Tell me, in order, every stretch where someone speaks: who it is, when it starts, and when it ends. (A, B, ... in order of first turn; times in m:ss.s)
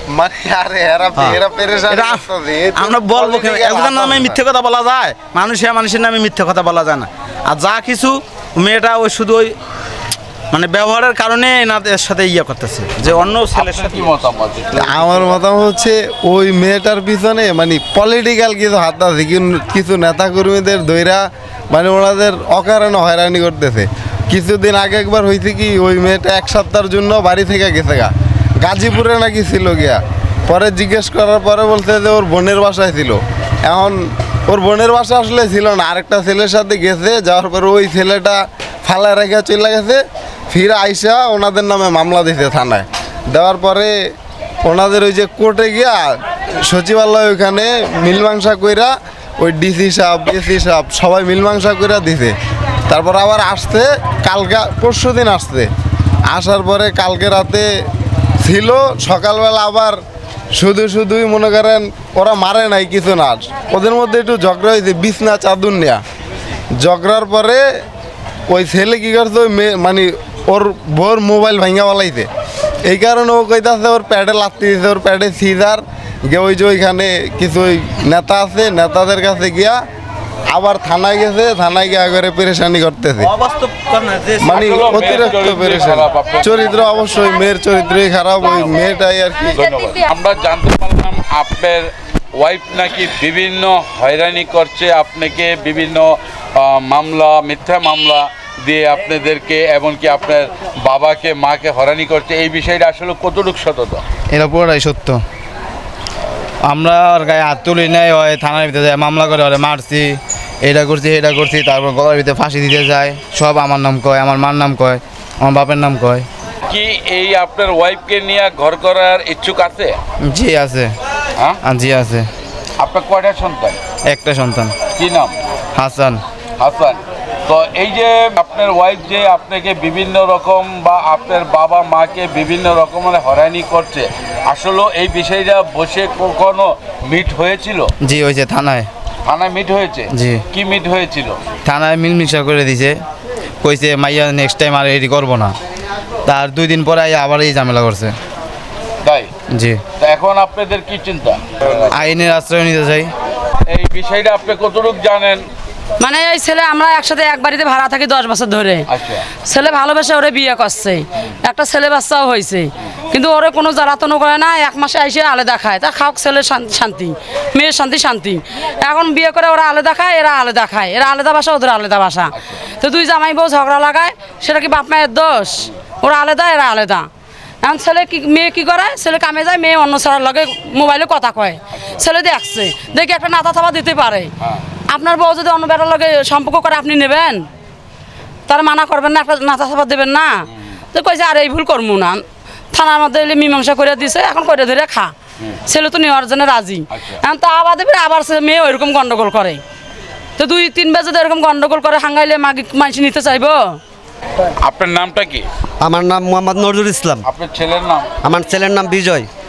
0:00.1-0:04.4 A
0:01.1-0:09.5 B
0:10.5-0:14.1 B
0:13.5-0:15.4 C
0:14.8-0:43.9 A
0:44.6-0:52.3 A
0:52.9-0:55.7 A
0:56.3-0:57.7 A
0:58.4-1:00.0 A
1:00.6-1:06.0 A
1:06.8-1:07.6 A
1:08.5-1:12.3 A
1:12.9-1:19.8 A
1:20.5-1:23.3 A
1:23.2-1:24.6 B
1:24.4-1:29.5 A
1:24.5-1:27.2 C
1:28.4-1:28.9 C
1:29.5-1:44.0 C
1:44.3-1:45.2 D
1:46.6-1:56.2 D
1:56.7-2:00.0 C
2:00.2-2:00.9 D
2:01.6-2:02.3 D
2:02.8-2:03.8 C
2:04.1-2:04.7 D
2:04.9-2:05.3 C
2:05.8-2:06.2 D
2:06.6-2:17.9 C
2:18.0-2:18.9 D
2:19.2-2:21.4 C
2:20.1-2:20.4 D
2:21.6-2:23.0 D
2:23.6-2:25.6 D
2:26.3-2:28.1 D
2:29.0-2:29.3 C
2:29.5-2:29.8 D
2:30.0-2:32.1 C
2:31.9-2:33.1 D
2:33.7-2:35.4 C
2:36.0-2:38.9 E
2:38.9-2:39.3 C
2:39.4-2:57.1 E
2:57.6-3:04.3 E
3:01.8-3:02.0 C
3:04.9-3:07.5 E
3:08.5-3:15.1 E
3:15.7-3:19.6 E
3:20.4-3:23.8 E
3:24.6-3:25.5 C
3:25.8-3:27.2 F
3:27.2-3:28.1 C
3:28.2-3:29.3 F